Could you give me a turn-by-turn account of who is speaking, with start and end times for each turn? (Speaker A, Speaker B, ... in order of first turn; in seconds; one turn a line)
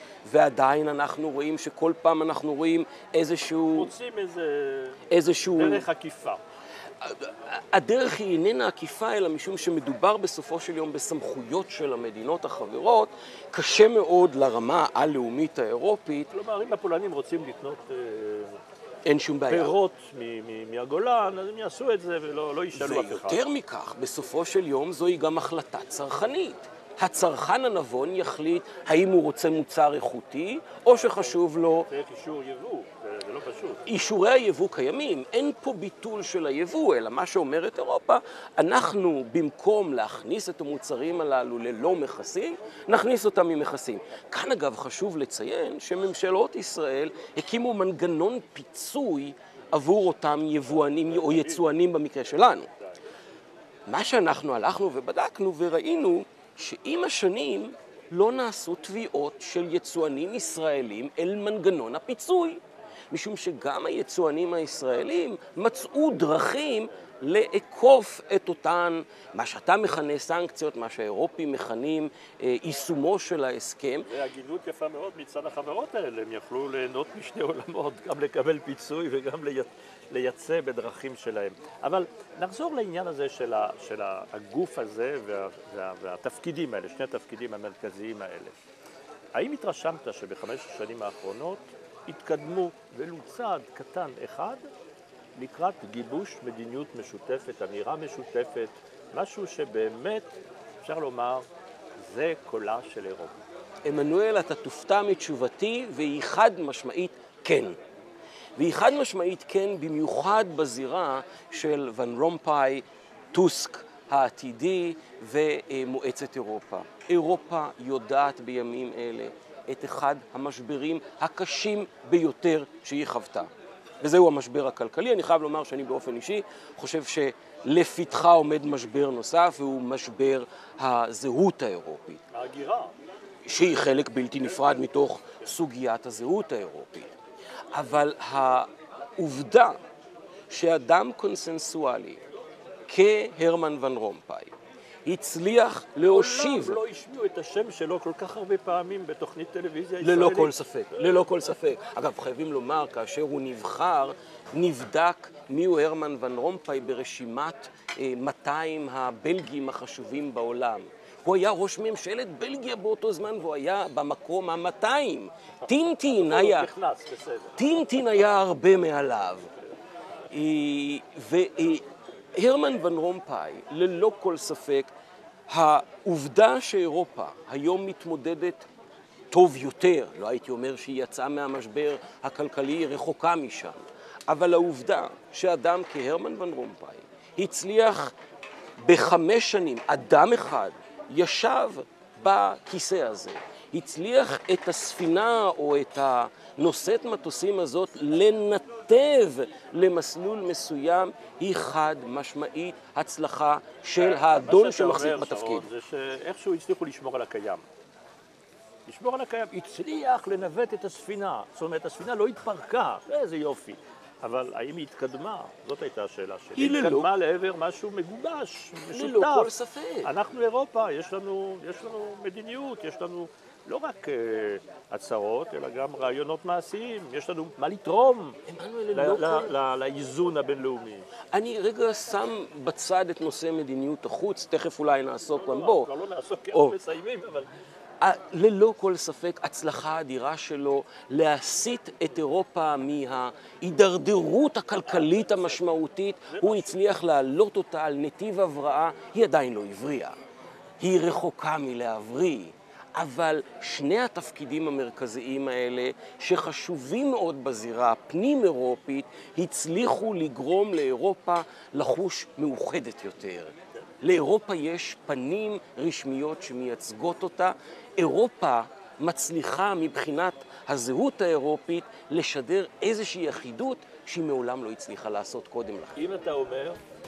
Speaker A: 0.2-3.9
Speaker B: 3.7-6.4
Speaker A: 5.1-5.9
Speaker A: 7.0-16.3
Speaker B: 16.3-18.6
Speaker A: 19.1-19.8
Speaker B: 19.5-23.4
Speaker A: 22.7-31.9
Speaker B: 30.9-31.4
Speaker B: 31.9-33.8
Speaker A: 33.9-52.7
Speaker A: 53.9-74.1
Speaker B: 74.0-88.5
Speaker B: 89.4-94.6
Speaker B: 95.4-100.3
Speaker B: 100.8-101.5
Speaker B: 102.0-103.4
Speaker A: 103.8-107.8
Speaker A: 108.6-132.2
Speaker B: 132.3-132.9
Speaker A: 133.4-137.1
Speaker A: 137.7-139.8
Speaker A: 140.5-142.2
Speaker A: 142.9-146.8
Speaker B: 146.1-151.3
Speaker A: 150.0-166.7
Speaker B: 166.1-167.6
Speaker A: 167.6-169.5
Speaker A: 170.3-174.9
Speaker A: 175.5-178.7
Speaker A: 179.3-188.1
Speaker A: 188.8-205.7
Speaker B: 204.0-207.7
Speaker B: 208.9-219.5
Speaker A: 216.6-217.1
Speaker A: 218.9-220.1
Speaker B: 220.0-228.4
Speaker A: 228.5-229.5
Speaker B: 228.9-231.1
Speaker A: 231.3-235.9
Speaker B: 235.3-237.5
Speaker A: 238.0-250.2
Speaker B: 246.3-246.8
Speaker A: 250.8-276.0
Speaker B: 276.0-276.8